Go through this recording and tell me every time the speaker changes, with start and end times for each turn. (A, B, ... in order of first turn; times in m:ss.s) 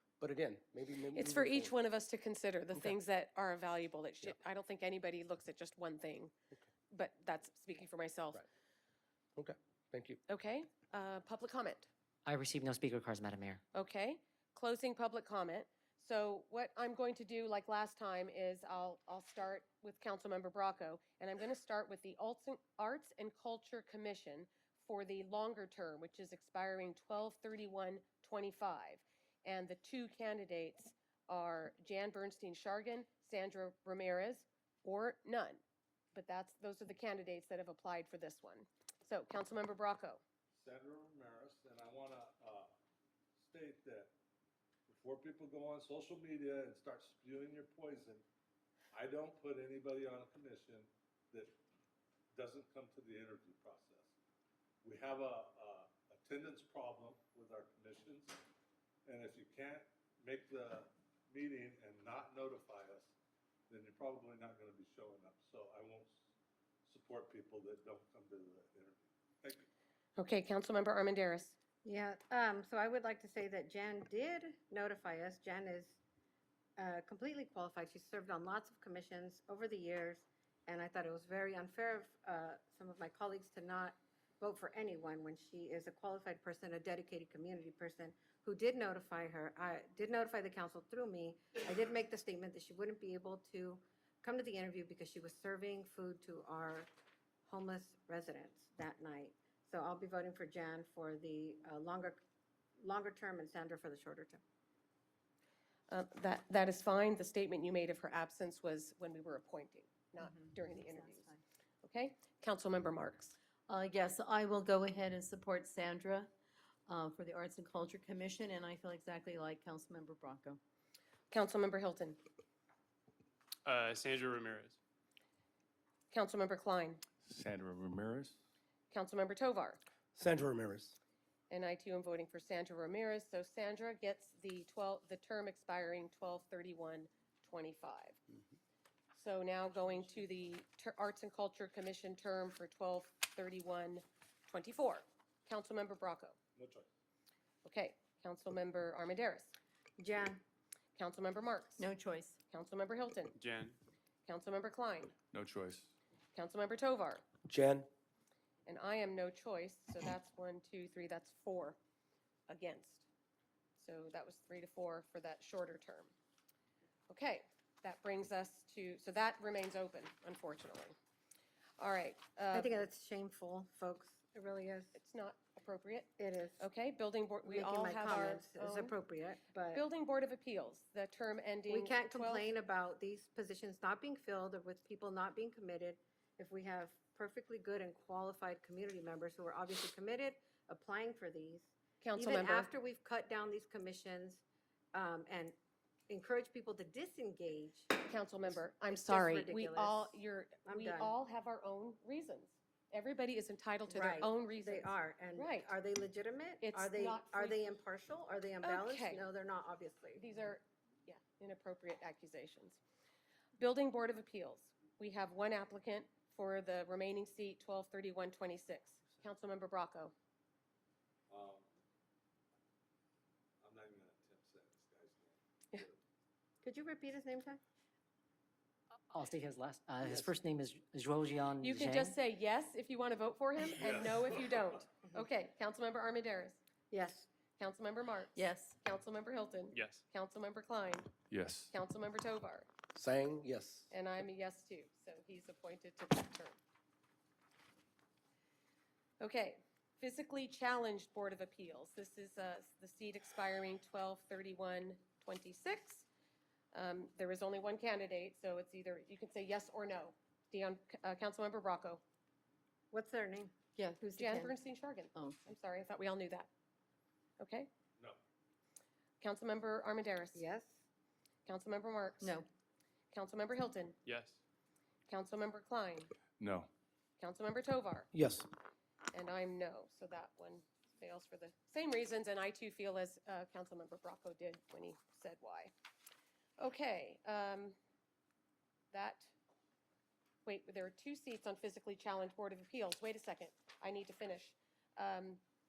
0:00.2-0:01.8 A
0:01.2-0:06.3 B
0:06.9-0:08.4 B
0:09.4-0:10.2 A
0:10.3-0:11.9 B
0:12.2-0:13.6 C
0:13.7-0:35.6 B
0:36.1-0:40.2 B
0:40.5-0:42.7 D
0:43.4-0:44.1 D
0:44.9-0:48.2 D
0:48.9-0:51.5 D
0:52.4-0:54.1 D
0:54.8-0:58.4 D
0:59.1-1:03.1 D
1:03.7-1:06.2 D
1:06.8-1:09.7 D
1:10.2-1:11.6 B
1:11.8-1:16.0 E
1:16.8-1:36.9 E
1:37.5-1:42.2 E
1:42.8-1:44.4 E
1:45.9-1:51.3 B
1:50.2-1:51.4 F
1:51.8-1:53.4 B
1:53.7-1:56.3 F
1:56.9-2:00.6 F
2:01.3-2:02.2 B
2:03.6-2:04.8 G
2:06.1-2:07.0 B
2:07.3-2:08.2 D
2:07.4-2:08.4 H
2:08.9-2:09.8 B
2:10.2-2:11.0 A
2:11.5-2:18.2 B
2:19.1-2:26.4 B
2:26.6-2:26.9 D
2:27.6-2:29.6 B
2:30.0-2:30.4 E
2:31.0-2:31.8 B
2:31.8-2:32.4 F
2:32.5-2:33.4 B
2:33.4-2:33.8 G
2:34.3-2:35.1 B
2:35.3-2:35.9 H
2:36.3-2:37.2 B
2:37.5-2:37.9 A
2:38.7-2:41.8 B
2:42.5-2:43.1 B
2:43.8-2:46.1 B
2:47.1-2:51.0 B
2:51.8-2:52.7 B
2:52.5-2:55.0 E
2:54.9-2:59.0 B
2:56.2-2:56.6 E
2:57.5-2:59.8 E
2:59.7-3:02.5 B
3:01.7-3:14.4 E
3:12.0-3:12.7 B
3:14.9-3:15.6 E
3:16.1-3:17.9 E
3:17.9-3:25.7 B
3:18.9-3:21.2 E
3:23.9-3:30.2 E
3:26.6-3:27.8 B
3:28.6-3:29.2 B
3:30.2-3:32.8 B
3:33.6-3:40.1 B
3:41.3-3:41.6 D
3:43.6-3:46.0 D
3:46.6-3:47.6 E
3:49.1-3:52.2 C
3:50.0-3:50.3 A
3:51.6-3:56.6 B
3:53.8-3:54.6 D
3:56.9-3:57.3 E
3:57.6-4:01.1 B
3:58.4-3:58.7 F
3:59.7-4:00.0 G
4:01.3-4:01.7 H
4:01.7-4:02.7 B
4:02.9-4:03.9 A
4:03.9-4:06.6 B
4:09.2-4:16.0 B
4:16.7-4:22.0 B
4:22.9-4:23.6 E
4:23.8-4:24.5 F
4:24.2-4:26.5 B
4:27.4-4:27.7 B
4:29.2-4:30.4 B
4:30.4-4:30.8 E
4:31.5-4:32.4 B
4:33.1-4:34.0 B
4:34.0-4:34.4 G
4:35.1-4:36.1 B
4:36.4-4:36.7 D
4:37.2-4:38.1 B
4:38.1-4:38.5 A
4:39.1-4:45.7 B
4:46.6-4:47.8 B
4:48.9-4:49.3 B
4:50.4-4:55.4 B